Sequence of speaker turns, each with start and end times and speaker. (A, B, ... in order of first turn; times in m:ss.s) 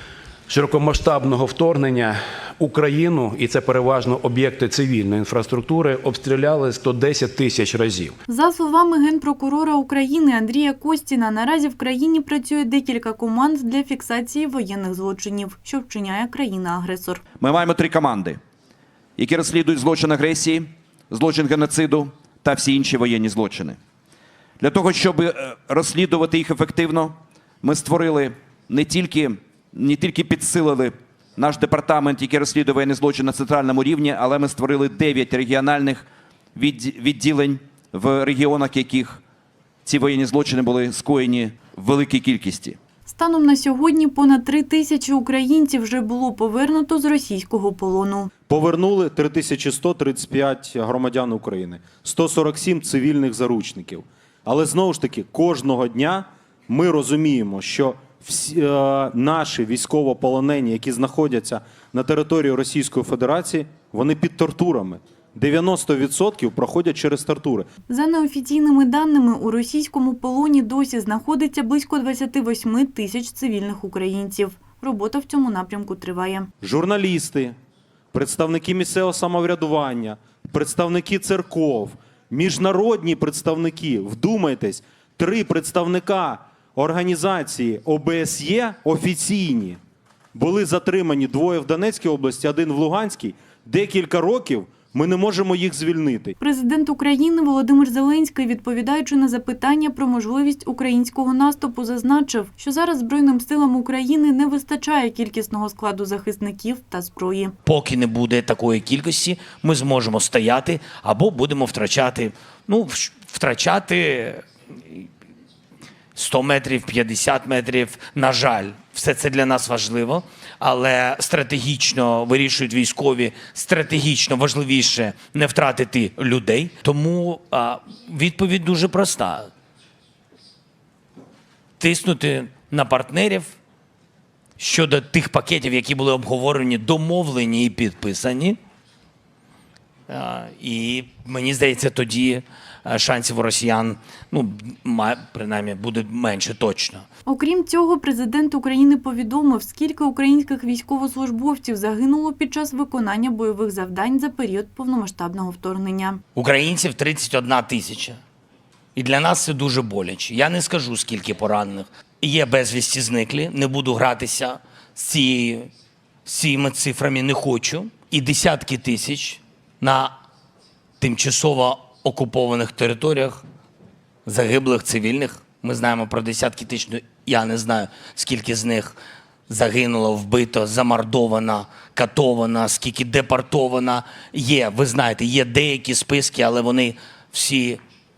0:00.5-0:08.1 A
0:08.3-0:17.2 B
0:17.4-0:18.4 C
0:19.2-0:23.8 C
0:24.6-0:39.2 C
0:39.8-0:42.8 C
0:43.0-0:48.3 B
0:48.5-1:07.7 D
1:07.9-1:16.5 B
1:16.6-1:17.5 D
1:18.1-1:29.8 D
1:30.3-1:36.4 D
1:36.4-1:47.5 B
1:47.6-1:55.1 E
1:56.2-2:09.5 E
2:11.8-2:13.6 E
2:14.6-2:18.6 E
2:20.1-2:27.0 E
2:27.3-2:36.2 B
2:36.3-2:38.2 E
2:39.0-2:45.7 E
2:46.2-2:50.1 E
2:51.0-2:53.4 E
2:54.2-2:59.0 E
2:59.5-3:07.8 E